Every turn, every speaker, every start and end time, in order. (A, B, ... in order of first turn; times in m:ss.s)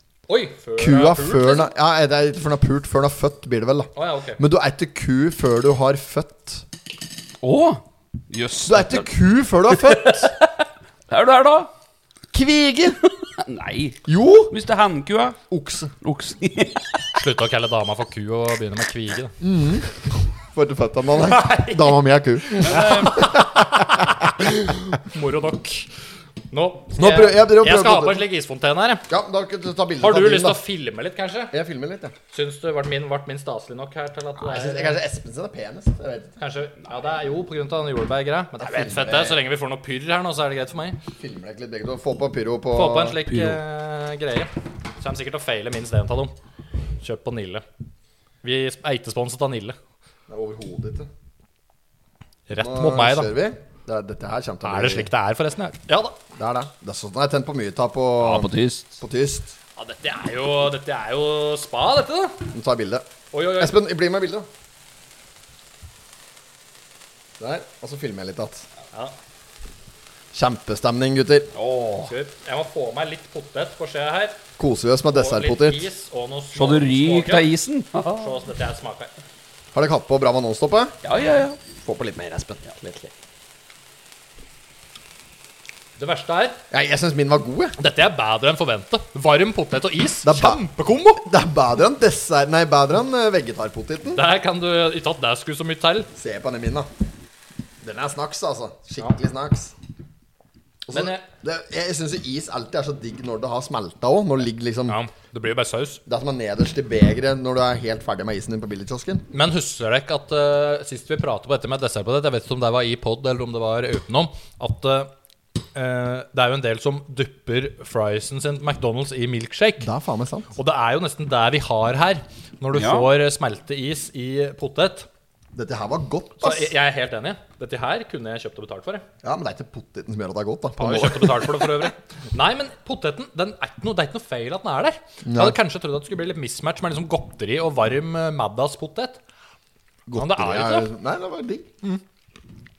0:00.3-0:01.7 A
0:00.8-0:06.6 B
0:03.9-0:04.4 A
0:07.4-0:09.1 C
0:08.6-0:10.3 B
0:09.7-0:10.5 C
0:11.1-0:11.7 C
0:12.3-0:13.0 B
0:13.4-0:15.4 C
0:14.1-0:14.5 B
0:15.5-0:15.9 B
0:16.0-0:17.0 C
0:17.2-0:19.4 A
0:19.4-0:24.8 B
0:21.2-0:23.8 A
0:22.7-0:23.2 C
0:24.9-0:25.9 A
0:26.5-0:29.1 A
0:27.0-0:28.2 B
0:29.1-0:30.6 B
0:30.0-0:31.5 A
0:31.5-0:32.1 B
0:32.3-0:35.0 A
0:34.4-0:36.3 B
0:36.4-0:41.0 A
0:38.6-0:39.4 B
0:41.2-0:43.2 B
0:42.7-0:46.3 A
0:43.3-0:43.6 C
0:47.0-0:47.6 A
0:48.4-0:49.8 A
0:50.3-0:51.1 B
0:52.5-0:53.3 A
0:52.6-0:55.1 B
0:54.6-0:56.2 A
0:56.4-0:59.5 B
0:58.2-0:58.9 C
0:59.8-1:02.5 A
1:02.5-1:03.0 B
1:03.3-1:03.8 A
1:03.6-1:04.5 B
1:07.4-1:08.7 B
1:10.3-1:11.5 B
1:11.5-1:12.1 C
1:12.0-1:14.4 A
1:14.6-1:15.8 B
1:15.1-1:17.5 A
1:16.5-1:18.3 C
1:18.2-1:19.1 A
1:19.7-1:21.0 B
1:21.0-1:21.6 C
1:21.8-1:23.1 B
1:26.0-1:26.6 A
1:26.7-1:27.8 B
1:27.8-1:31.2 A
1:30.2-1:30.6 B
1:31.2-1:34.2 B
1:34.1-1:36.1 A
1:36.1-1:36.9 B
1:37.8-1:39.7 B
1:40.8-1:45.0 B
1:40.9-1:41.2 A
1:44.9-1:46.0 A
1:46.0-1:49.2 B
1:49.3-1:55.1 A
1:55.7-1:59.9 A
1:59.8-2:00.5 B
2:00.5-2:05.1 A
2:02.7-2:03.1 C
2:05.5-2:06.7 B
2:06.4-2:09.0 A
2:09.2-2:11.9 B
2:10.8-2:19.2 A
2:15.2-2:15.6 B
2:20.1-2:21.7 B
2:20.2-2:20.9 A